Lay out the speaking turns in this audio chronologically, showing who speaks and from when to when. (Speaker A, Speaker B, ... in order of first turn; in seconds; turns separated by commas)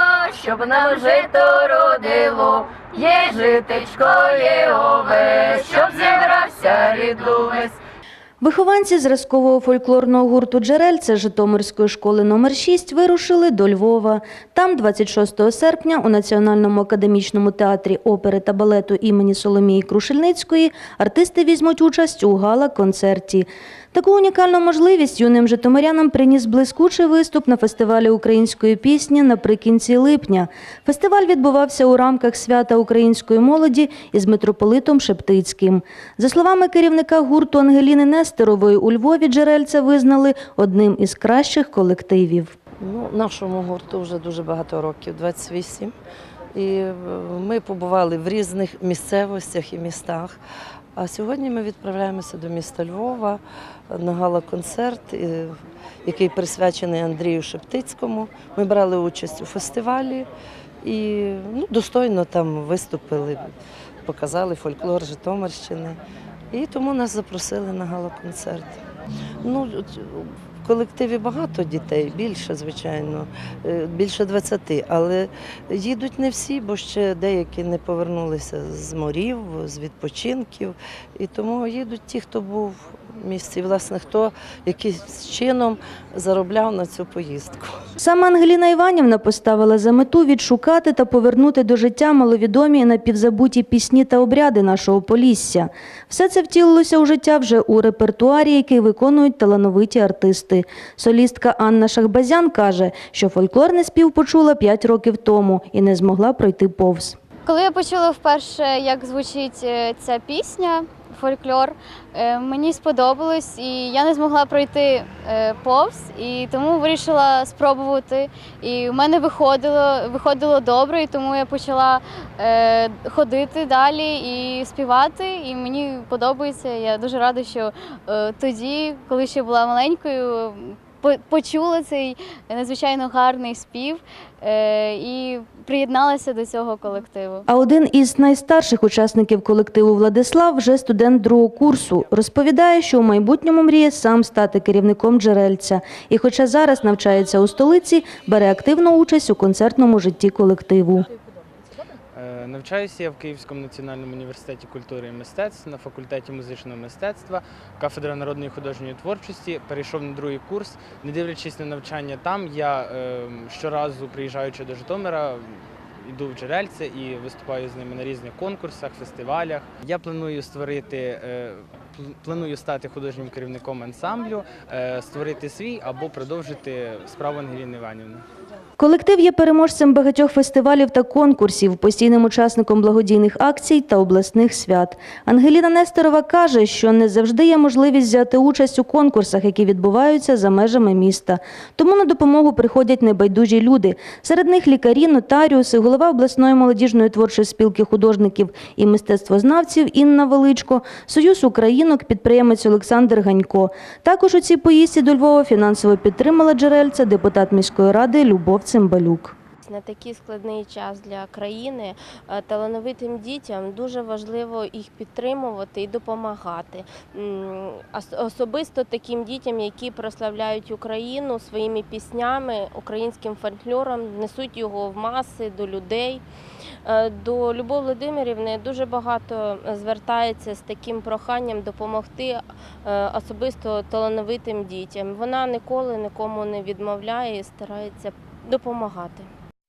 Speaker A: 0.5-7.6, Speaker B: 8.4-42.5, Speaker C: 42.8-45.9, Speaker C: 46.5-50.4, Speaker C: 51.0-60.3, Speaker C: 60.8-63.5, Speaker C: 64.1-66.0, Speaker C: 66.5-68.8, Speaker C: 69.4-87.8, Speaker B: 88.0-107.2, Speaker D: 107.5-137.5, Speaker B: 137.5-151.1, Speaker E: 152.1-178.2, Speaker B: 178.8-209.3, Speaker F: 209.6-226.2, Speaker F: 226.8-239.3